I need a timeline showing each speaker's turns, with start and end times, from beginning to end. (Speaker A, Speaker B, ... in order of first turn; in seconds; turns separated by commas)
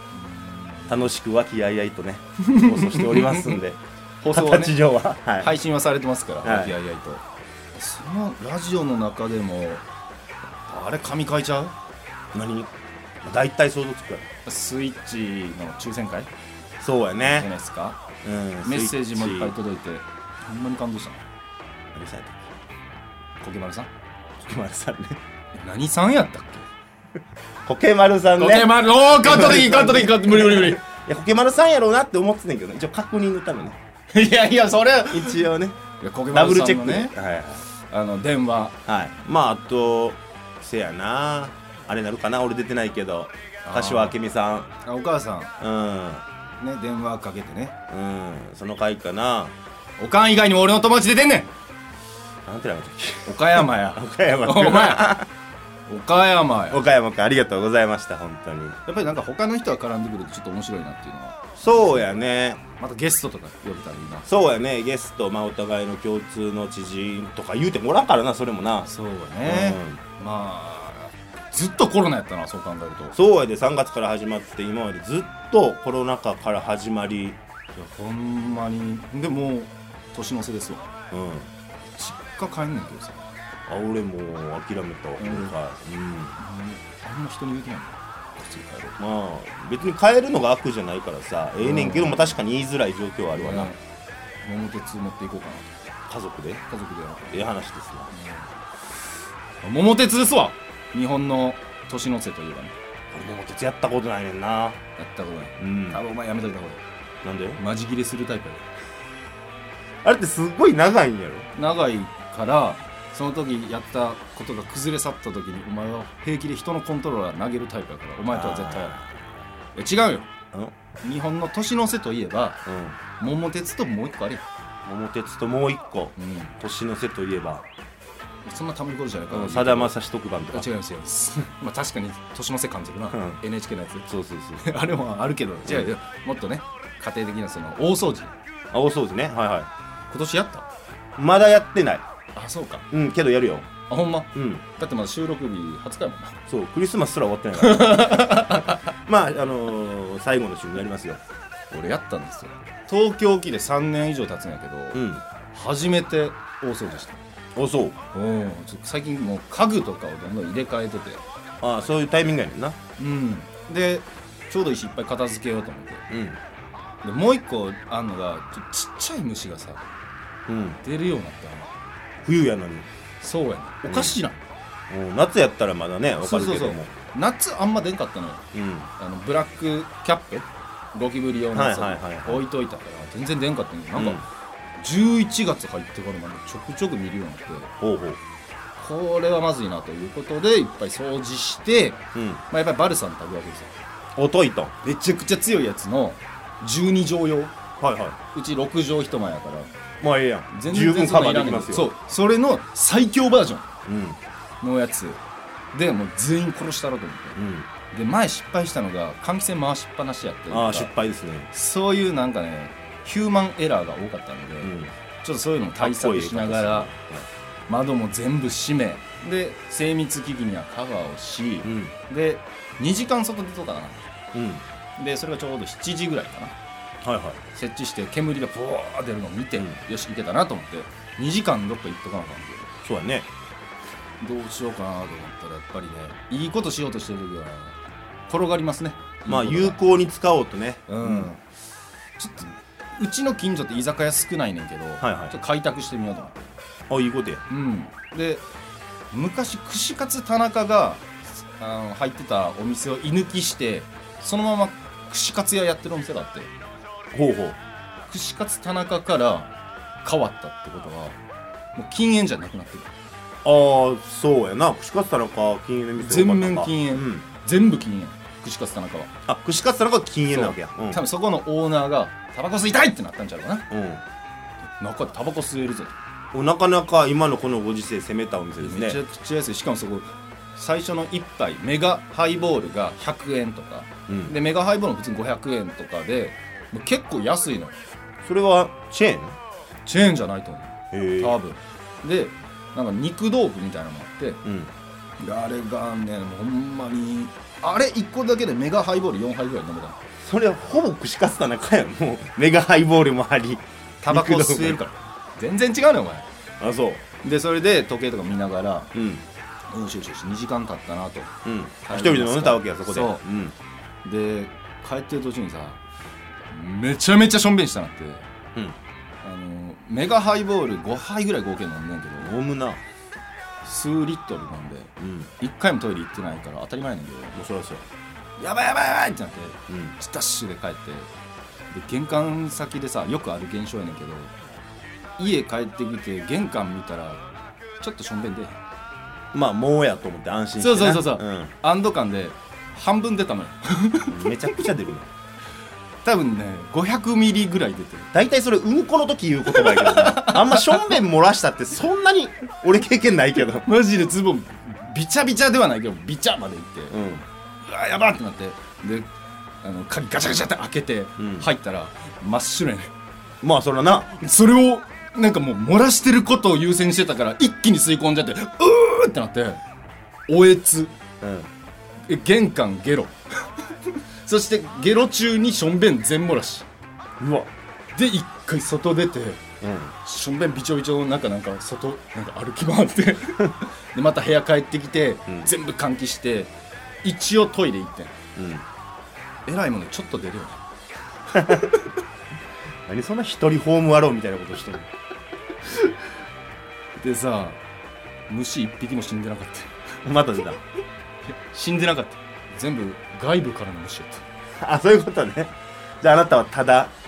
Speaker A: 0.1-1.1, Speaker B: 0.9-5.5, Speaker A: 2.4-3.6, Speaker A: 4.2-4.8, Speaker A: 5.4-7.2, Speaker B: 6.4-6.8, Speaker A: 7.7-9.8, Speaker A: 10.7-11.7, Speaker B: 12.3-12.7, Speaker B: 13.2-14.3, Speaker A: 14.4-16.3, Speaker B: 16.8-17.5, Speaker A: 17.2-18.0, Speaker B: 18.2-19.5, Speaker A: 18.6-21.2, Speaker B: 21.9-22.5, Speaker A: 23.4-23.9, Speaker B: 24.4-25.2, Speaker A: 25.5-26.7, Speaker B: 27.6-33.8, Speaker A: 28.4-30.8, Speaker A: 34.1-35.4, Speaker B: 35.1-35.8, Speaker A: 36.0-37.1, Speaker B: 36.3-37.6, Speaker A: 37.8-38.7, Speaker B: 38.9-44.7, Speaker A: 43.6-44.1, Speaker A: 44.8-45.5, Speaker B: 45.6-46.2, Speaker A: 46.6-47.7, Speaker B: 47.9-49.5, Speaker A: 50.0-51.5, Speaker B: 52.5-55.3, Speaker A: 53.2-55.1, Speaker A: 55.9-56.8, Speaker B: 56.7-58.8, Speaker A: 58.9-62.0, Speaker B: 61.6-62.6, Speaker A: 62.8-64.3, Speaker B: 64.3-68.9, Speaker A: 68.9-73.1, Speaker B: 69.4-70.0, Speaker B: 73.1-77.4, Speaker A: 77.7-80.8, Speaker B: 81.1-81.5, Speaker A: 82.0-83.3, Speaker B: 83.7-86.4, Speaker A: 85.2-85.5, Speaker A: 86.4-89.0, Speaker B: 89.0-93.7, Speaker A: 91.6-92.4, Speaker A: 93.3-93.8, Speaker A: 94.4-95.8, Speaker B: 96.1-96.6, Speaker A: 96.7-97.5, Speaker B: 97.3-98.1, Speaker A: 98.1-98.5, Speaker A: 99.6-102.7, Speaker B: 103.1-104.8, Speaker A: 105.0-106.8, Speaker B: 105.6-106.0, Speaker B: 107.2-107.6, Speaker A: 107.6-108.6, Speaker B: 110.0-111.5, Speaker A: 111.5-119.0, Speaker B: 118.3-119.1, Speaker A: 119.7-120.3, Speaker A: 121.0-122.6, Speaker B: 122.7-123.0, Speaker A: 123.2-124.4, Speaker B: 124.8-127.7, Speaker A: 126.2-126.6, Speaker A: 128.4-129.9, Speaker B: 129.3-130.7, Speaker A: 130.5-134.1, Speaker B: 133.1-133.4, Speaker B: 134.1-134.6, Speaker A: 134.6-138.3, Speaker B: 135.6-135.9, Speaker B: 138.7-139.7, Speaker A: 140.1-140.7, Speaker B: 141.2-142.0, Speaker A: 142.3-142.8, Speaker B: 142.9-143.7, Speaker A: 143.9-146.4, Speaker B: 144.3-144.6, Speaker B: 146.5-151.2, Speaker A: 147.6-148.8, Speaker A: 151.7-155.0, Speaker B: 154.9-155.2, Speaker A: 155.5-157.2, Speaker B: 157.6-158.0, Speaker A: 158.1-161.2, Speaker B: 161.6-162.8, Speaker A: 163.0-166.0, Speaker B: 166.1-166.4, Speaker A: 167.0-169.8, Speaker B: 170.5-170.8, Speaker A: 170.8-171.7, Speaker B: 172.2-172.9, Speaker A: 173.2-174.4, Speaker B: 173.9-174.2, Speaker B: 174.9-176.9, Speaker A: 176.2-178.5, Speaker B: 178.5-178.9, Speaker A: 179.0-184.2, Speaker B: 181.5-182.4, Speaker B: 183.9-184.2, Speaker A: 184.8-187.7, Speaker B: 187.8-188.2, Speaker A: 188.8-193.7, Speaker B: 192.1-192.4, Speaker B: 194.2-194.7, Speaker A: 194.8-197.5, Speaker B: 197.8-198.2, Speaker A: 198.3-199.7, Speaker B: 200.0-201.9, Speaker A: 200.5-203.7, Speaker B: 203.9-204.2, Speaker A: 204.6-205.2, Speaker A: 205.7-210.9, Speaker B: 207.3-207.7, Speaker B: 210.5-211.5, Speaker A: 211.5-216.9, Speaker B: 214.6-214.9, Speaker B: 215.8-217.3, Speaker A: 217.7-224.0, Speaker B: 221.6-221.9, Speaker B: 224.3-224.6, Speaker A: 225.0-226.5, Speaker B: 227.0-227.4, Speaker A: 227.5-232.7, Speaker B: 232.8-233.3, Speaker A: 234.2-237.8, Speaker A: 238.3-239.8, Speaker B: 239.3-241.3, Speaker A: 240.9-241.4, Speaker A: 242.2-246.4, Speaker B: 245.0-245.3, Speaker B: 246.9-247.4, Speaker A: 247.5-248.4, Speaker A: 249.1-256.5, Speaker B: 257.1-257.6, Speaker A: 258.1-259.5, Speaker A: 260.0-261.2, Speaker A: 261.7-262.9, Speaker B: 263.4-267.2, Speaker A: 266.0-269.1, Speaker B: 269.3-271.0, Speaker A: 270.3-273.7, Speaker B: 273.7-274.0, Speaker A: 274.8-275.9, Speaker B: 276.3-279.0, Speaker A: 278.6-287.7, Speaker B: 284.1-284.4, Speaker B: 288.2-289.4, Speaker A: 289.9-294.4, Speaker B: 290.9-291.4, Speaker B: 294.4-294.7, Speaker A: 295.2-300.0, Speaker B: 300.2-304.8, Speaker A: 304.0-306.3, Speaker B: 306.6-307.0, Speaker A: 307.2-308.9, Speaker B: 308.9-309.2, Speaker A: 309.7-313.2, Speaker B: 311.4-313.5, Speaker A: 314.0-315.8, Speaker A: 316.5-318.2, Speaker A: 319.2-322.3, Speaker B: 322.2-322.8, Speaker A: 323.6-327.4, Speaker B: 325.0-325.3, Speaker B: 327.3-327.8, Speaker A: 328.4-331.1, Speaker B: 329.7-330.0, Speaker A: 331.7-334.3, Speaker A: 335.2-337.2, Speaker A: 337.8-338.6, Speaker B: 339.3-341.5, Speaker A: 340.6-344.6, Speaker B: 344.1-345.1, Speaker A: 346.0-348.1, Speaker B: 348.1-353.6, Speaker A: 349.5-350.9, Speaker A: 353.6-356.9, Speaker B: 356.9-357.2, Speaker A: 357.6-359.1, Speaker A: 359.6-362.9, Speaker B: 361.2-361.5, Speaker B: 363.4-364.1, Speaker A: 364.2-369.6, Speaker A: 370.3-370.9, Speaker B: 371.2-371.5, Speaker A: 372.1-373.1, Speaker A: 373.9-376.6, Speaker B: 377.2-377.5, Speaker A: 377.9-379.4, Speaker B: 379.6-379.9, Speaker A: 380.0-386.5, Speaker A: 387.0-388.2, Speaker B: 388.4-388.6, Speaker A: 389.4-390.6, Speaker A: 391.3-391.9, Speaker B: 391.3-391.7, Speaker B: 392.9-394.9, Speaker A: 397.0-397.6, Speaker A: 398.3-399.7, Speaker B: 400.0-400.6, Speaker A: 401.3-404.2, Speaker B: 404.6-406.9